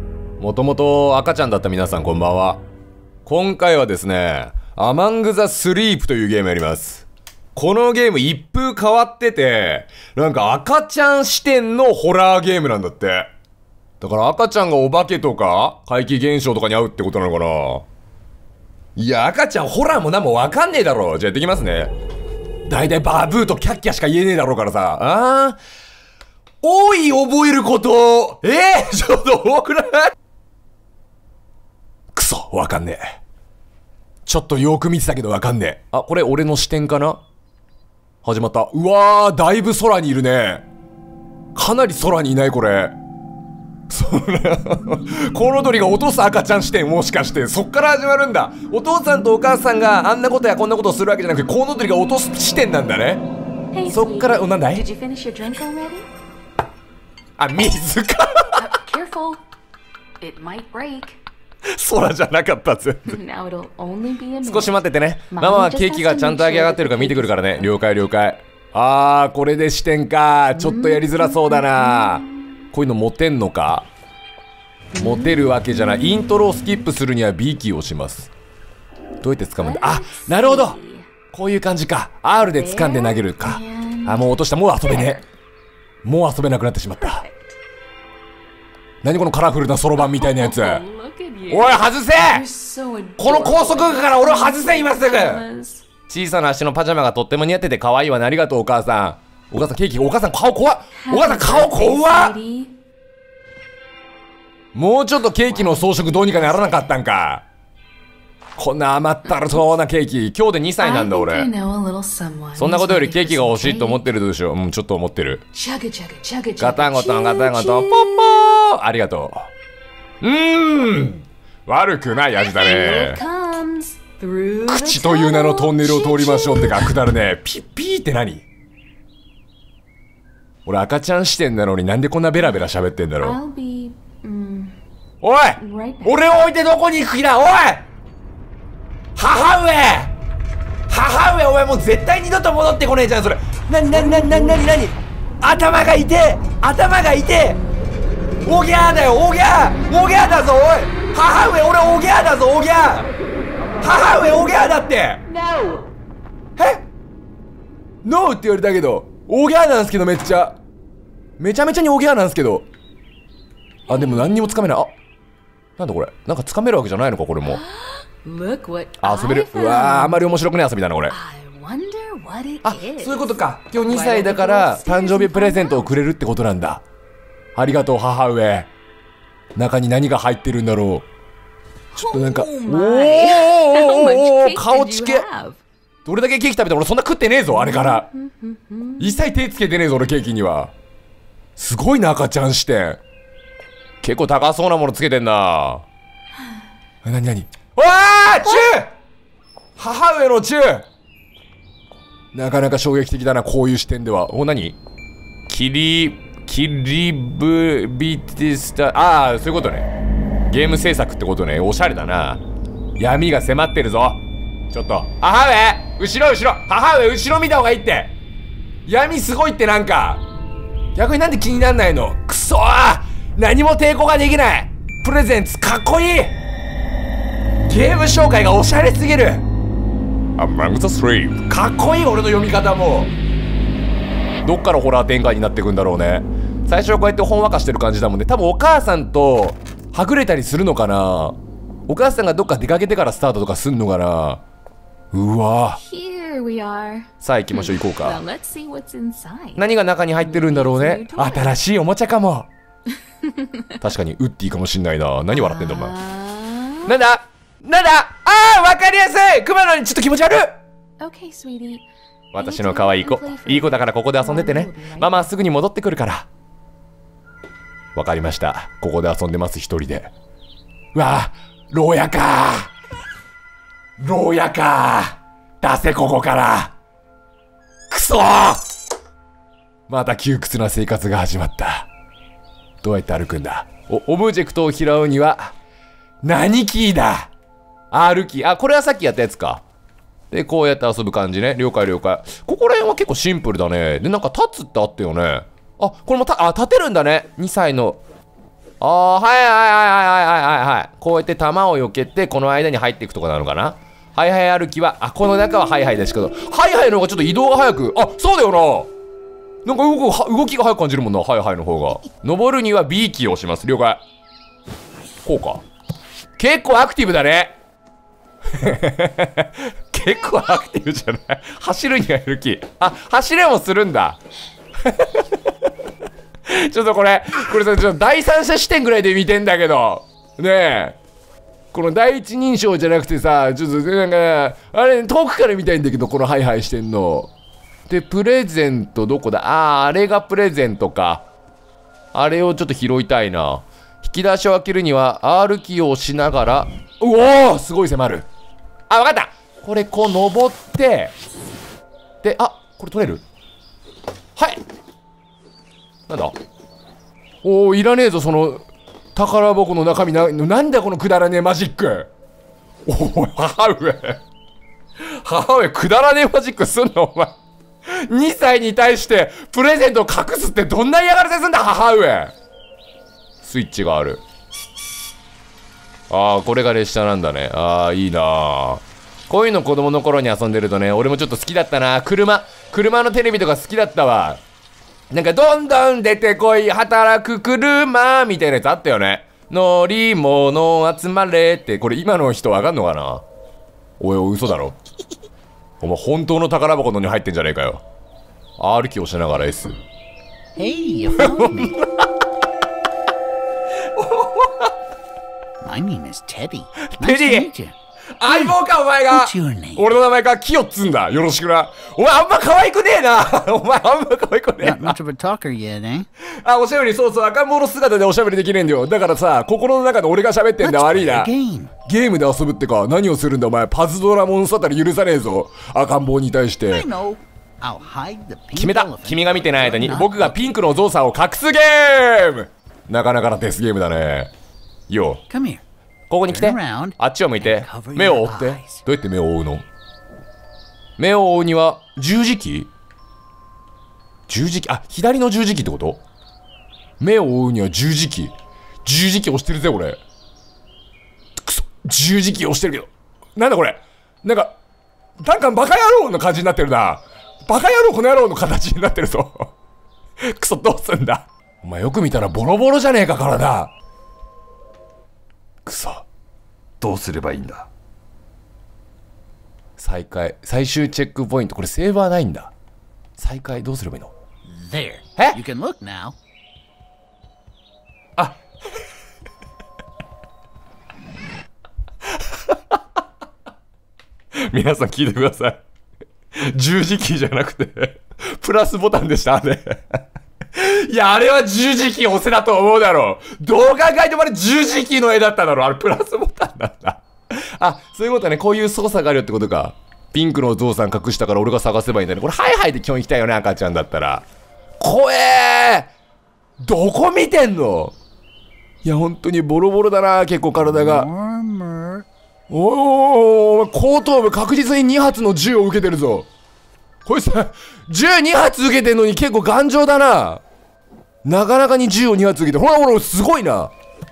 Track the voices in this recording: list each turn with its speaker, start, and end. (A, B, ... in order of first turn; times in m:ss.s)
0:00.4-0:02.6 A
0:03.2-0:13.3 A
0:14.0-0:17.9 A
0:19.0-0:21.9 A
0:22.7-0:25.6 A
0:26.6-0:30.1 A
0:32.1-0:33.2 A
0:34.3-0:37.2 A
0:38.2-0:40.6 A
0:41.6-0:43.0 A
0:43.9-0:53.2 A
0:53.7-0:56.1 B
0:53.9-0:54.9 A
0:57.4-0:58.6 A
0:58.5-0:59.4 B
1:00.2-1:01.2 B
1:01.7-1:03.2 A
1:03.1-1:07.7 B
1:04.4-1:13.9 A
1:10.6-1:12.2 B
1:15.0-1:18.3 A
1:15.0-1:15.4 B
1:19.2-1:20.8 A
1:19.6-1:21.1 B
1:21.3-1:25.2 A
1:22.4-1:25.2 B
1:26.0-1:27.2 A
1:27.0-1:27.4 B
1:29.0-1:30.8 A
1:30.0-1:35.9 B
1:31.5-1:32.4 A
1:33.2-1:35.4 A
1:36.1-1:42.4 A
1:41.0-1:42.7 B
1:44.7-1:47.4 A
1:45.4-1:46.8 B
1:48.6-1:51.5 A
1:49.3-1:49.6 B
1:50.8-1:54.0 B
1:52.6-1:55.4 A
1:55.5-1:58.6 B
1:56.6-1:59.5 A
2:00.2-2:03.2 A
2:02.4-2:07.0 B
2:04.7-2:08.4 A
2:10.6-2:13.4 A
2:12.4-2:12.7 B
2:13.2-2:14.8 B
2:15.2-2:17.9 A
2:15.6-2:16.2 B
2:19.2-2:20.1 A
2:20.9-2:27.6 A
2:28.4-2:33.1 A
2:33.8-2:35.2 A
2:35.4-2:35.8 B
2:36.6-2:36.8 A
2:38.0-2:40.6 A
2:41.4-2:42.7 A
2:43.9-2:44.9 A
2:43.9-2:44.4 B
2:45.8-2:47.6 A
2:47.4-2:50.4 B
2:49.0-2:51.2 A
2:51.1-2:53.3 B
2:52.6-2:56.8 A
2:53.8-2:56.0 B
2:57.6-2:58.7 A
2:59.6-3:01.1 A
3:01.9-3:05.6 B
3:01.9-3:05.3 A
3:06.1-3:08.1 A
3:07.5-3:09.2 B
3:09.0-3:10.7 A
3:11.6-3:13.0 A
3:14.0-3:15.9 A
3:17.0-3:18.9 A
3:19.8-3:20.9 A
3:22.3-3:24.8 A
3:25.5-3:29.9 A
3:30.5-3:32.4 A
3:33.0-3:34.2 A
3:34.7-3:38.1 A
3:38.9-3:40.2 A
3:41.0-3:46.4 A
3:47.7-3:49.5 A
3:50.4-3:53.1 A
3:54.4-4:01.4 A
4:01.9-4:04.4 A
4:05.1-4:05.8 A
4:05.8-4:11.6 B
4:07.2-4:08.2 A
4:09.6-4:12.5 A
4:13.2-4:13.8 B
4:13.8-4:15.9 A
4:15.3-4:17.0 B
4:16.9-4:20.6 A
4:21.0-4:25.3 B
4:22.3-4:26.3 A
4:28.0-4:30.1 A
4:30.9-4:32.7 A
4:34.0-4:36.7 A
4:37.9-4:38.6 A
4:39.9-4:41.9 A
4:42.8-4:45.5 A
4:46.2-4:47.3 A
4:47.9-4:49.6 A
4:50.3-4:58.0 A
4:58.8-5:08.9 A
5:09.6-5:14.0 A
5:15.2-5:15.6 A
5:16.4-5:17.6 A
5:18.5-5:24.2 A
5:24.8-5:25.2 A
5:26.5-5:31.0 A
5:31.7-5:37.3 A
5:37.9-5:41.2 A
5:42.1-5:48.3 A
5:48.9-5:51.1 A
5:52.2-5:53.2 A
5:54.4-5:54.6 A
5:56.1-5:56.3 A
5:57.4-5:58.6 A
5:59.2-6:02.1 A
6:02.9-6:04.2 A
6:05.0-6:07.4 A
6:07.9-6:12.3 A
6:13.4-6:14.2 A
6:16.1-6:24.4 A
6:25.1-6:33.2 A
6:34.0-6:34.8 A
6:35.8-6:37.8 A
6:38.6-6:39.8 A
6:40.6-6:41.8 C
6:41.2-6:42.1 A
6:44.0-6:44.7 A
6:45.6-6:48.6 C
6:46.8-6:47.5 A
6:48.2-6:55.0 A
6:49.1-6:49.9 C
6:54.6-6:56.1 C
6:56.4-7:01.3 A
7:00.6-7:01.7 C
7:01.9-7:06.9 A
7:06.7-7:10.4 C
7:08.6-7:14.3 A
7:14.9-7:15.2 A
7:15.3-7:15.6 C
7:16.1-7:19.6 A
7:16.3-7:18.8 C
7:21.0-7:22.7 A
7:24.3-7:26.0 A
7:27.0-7:28.3 A
7:28.8-7:30.0 A
7:31.4-7:34.6 A
7:35.2-7:39.5 A
7:40.2-7:43.7 A
7:45.6-7:46.0 A
7:46.8-7:47.7 A
7:49.8-7:52.5 A
7:53.2-7:54.1 A
7:54.5-7:56.2 C
8:02.3-8:02.6 A
8:04.4-8:05.6 A
8:06.4-8:10.0 A
8:10.6-8:24.2 A
8:24.8-8:25.9 A
8:26.6-8:27.9 A
8:28.8-8:31.1 A
8:30.6-8:32.1 C
8:32.5-8:36.3 A
8:37.0-8:40.4 A
8:41.2-8:43.7 A